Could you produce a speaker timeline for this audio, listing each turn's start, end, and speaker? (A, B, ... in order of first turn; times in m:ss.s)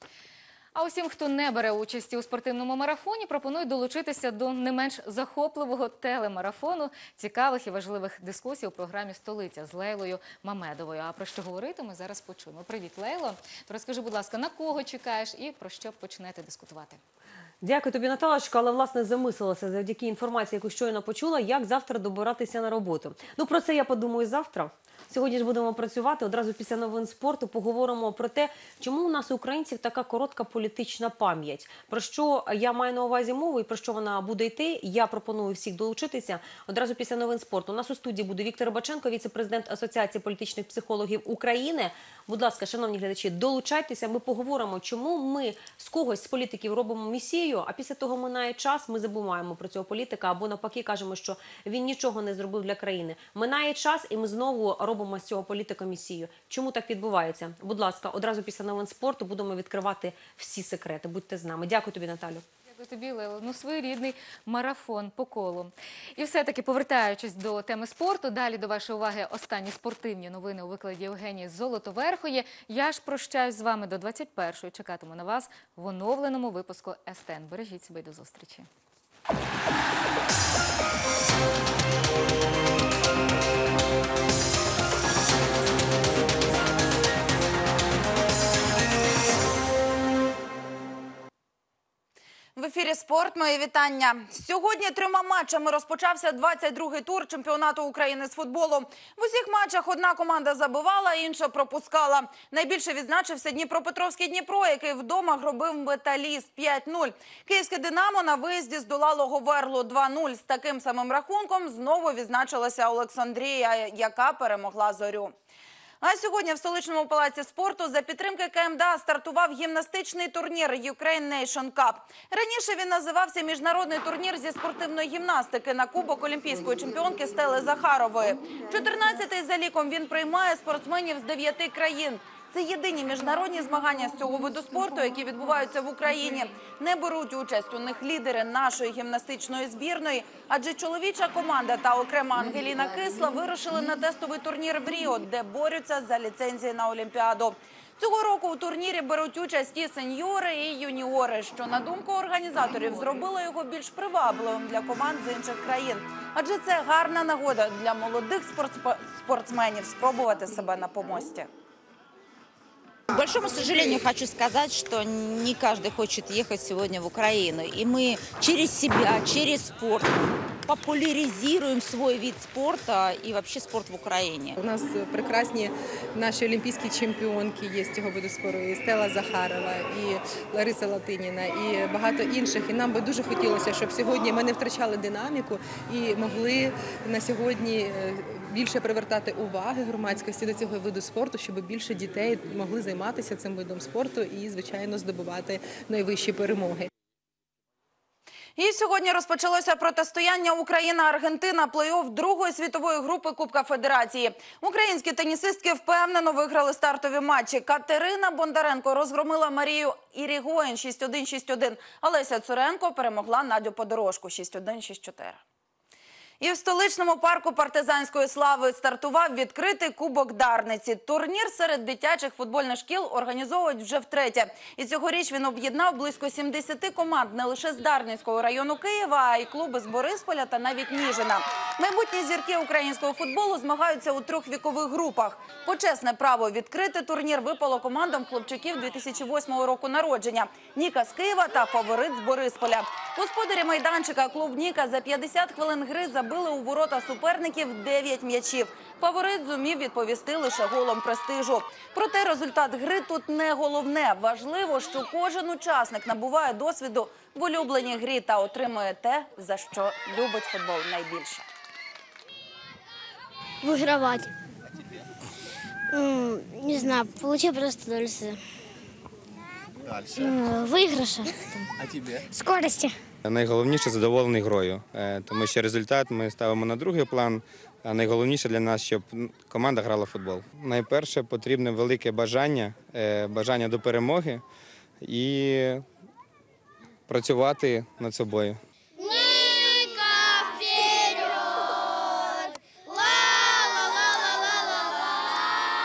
0:00.8-0:17.0 A
0:17.6-1:02.4 B
1:02.7-1:18.7 A
1:32.6-1:55.3 C
1:56.0-2:41.5 C
2:43.2-2:50.1 D
2:43.4-2:44.1 C
2:50.7-2:54.6 D
2:54.6-3:16.9 E
3:18.6-3:35.4 C
3:36.4-4:21.4 C
4:23.6-4:24.3 F
4:25.9-4:28.4 F
4:30.1-4:31.7 F
4:32.3-4:33.0 F
4:33.2-4:44.4 G
4:45.0-4:45.8 G
4:47.1-4:48.6 G
4:49.0-4:52.3 C
4:52.9-4:54.9 C